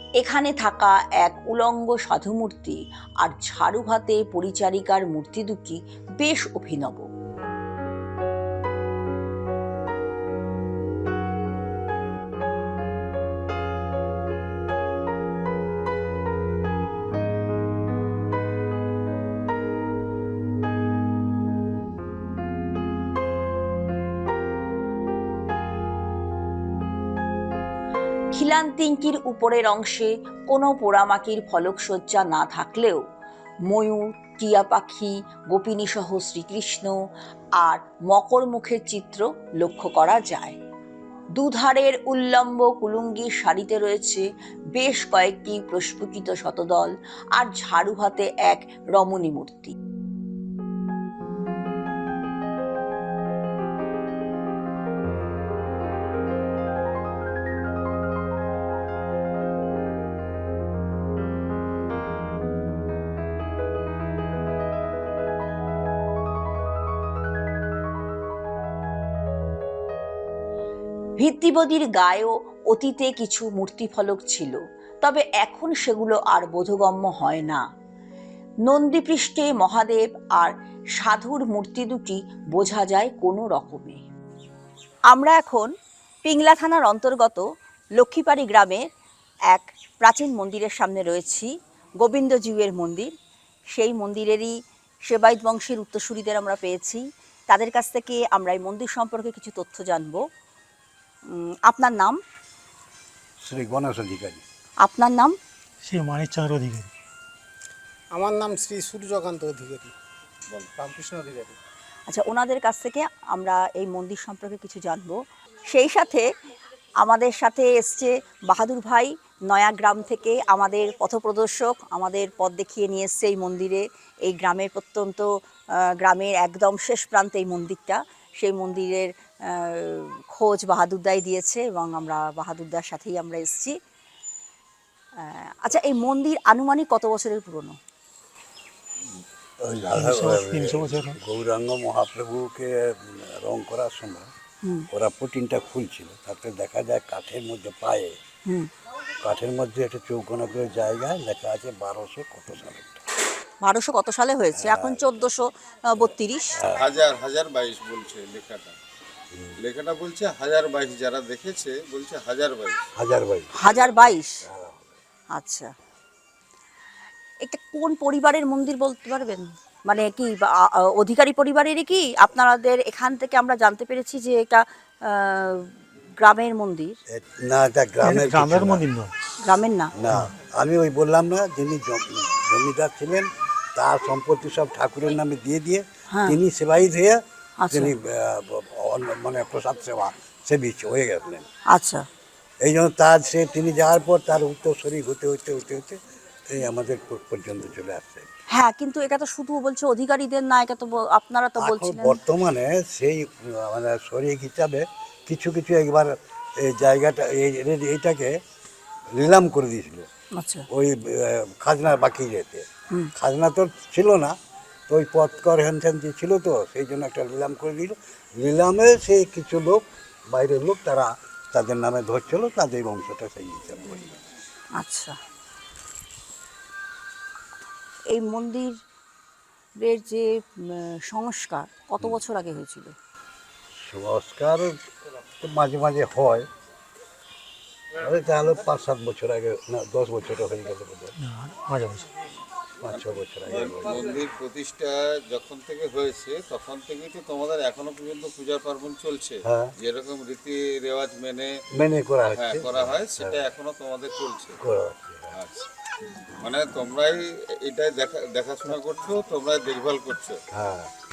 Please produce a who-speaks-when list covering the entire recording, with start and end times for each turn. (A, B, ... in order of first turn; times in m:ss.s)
0:00.2-0:07.0 A
0:28.3-0:33.0 A
0:33.7-0:37.0 A
0:37.6-0:40.6 A
0:41.4-0:49.7 A
1:11.2-1:17.6 A
1:18.7-1:24.0 A
1:25.1-1:25.7 A
1:26.2-1:27.4 A
1:28.0-1:28.8 A
1:29.5-1:31.5 A
1:32.0-1:33.1 A
1:33.7-1:34.5 A
1:35.1-1:40.2 A
1:41.3-1:42.2 A
1:43.4-1:44.4 B
1:44.8-1:45.4 A
1:45.8-1:46.9 C
1:48.1-1:49.9 D
1:50.8-1:51.5 D
1:52.1-1:56.2 A
1:57.0-2:05.3 A
2:05.9-2:13.8 A
2:15.2-2:17.8 A
2:19.6-2:24.3 B
2:19.9-2:21.2 C
2:24.9-2:28.2 B
2:29.2-2:33.0 B
2:33.6-2:36.6 A
2:34.5-2:35.2 B
2:36.5-2:36.8 B
2:36.7-2:38.8 E
2:39.6-2:42.8 E
2:43.0-2:43.5 B
2:43.6-2:44.4 A
2:43.6-2:44.1 E
2:44.4-2:44.9 B
2:45.3-2:45.7 A
2:47.4-2:57.0 A
2:57.1-2:58.8 B
2:58.0-2:59.1 C
2:59.4-2:59.9 A
3:00.0-3:07.2 B
3:06.1-3:06.4 A
3:07.6-3:07.9 A
3:07.7-3:11.4 B
3:11.7-3:12.0 A
3:12.6-3:16.0 B
3:16.5-3:18.3 B
3:18.6-3:22.2 A
3:21.6-3:28.4 B
3:29.2-3:30.1 B
3:30.4-3:30.6 A
3:30.7-3:34.3 B
3:34.9-3:44.2 B
3:44.8-3:45.2 A
3:48.1-3:48.7 A
3:49.8-3:52.9 A
3:53.8-3:54.8 B
3:55.4-3:56.5 B
3:57.9-4:01.1 B
4:01.2-4:02.1 C
4:02.8-4:04.1 B
4:02.9-4:11.6 E
4:09.4-4:09.7 B
4:11.7-4:13.4 B
4:12.3-4:14.6 E
4:14.6-4:15.3 B
4:15.3-4:15.7 E
4:16.4-4:20.4 E
4:20.5-4:20.9 B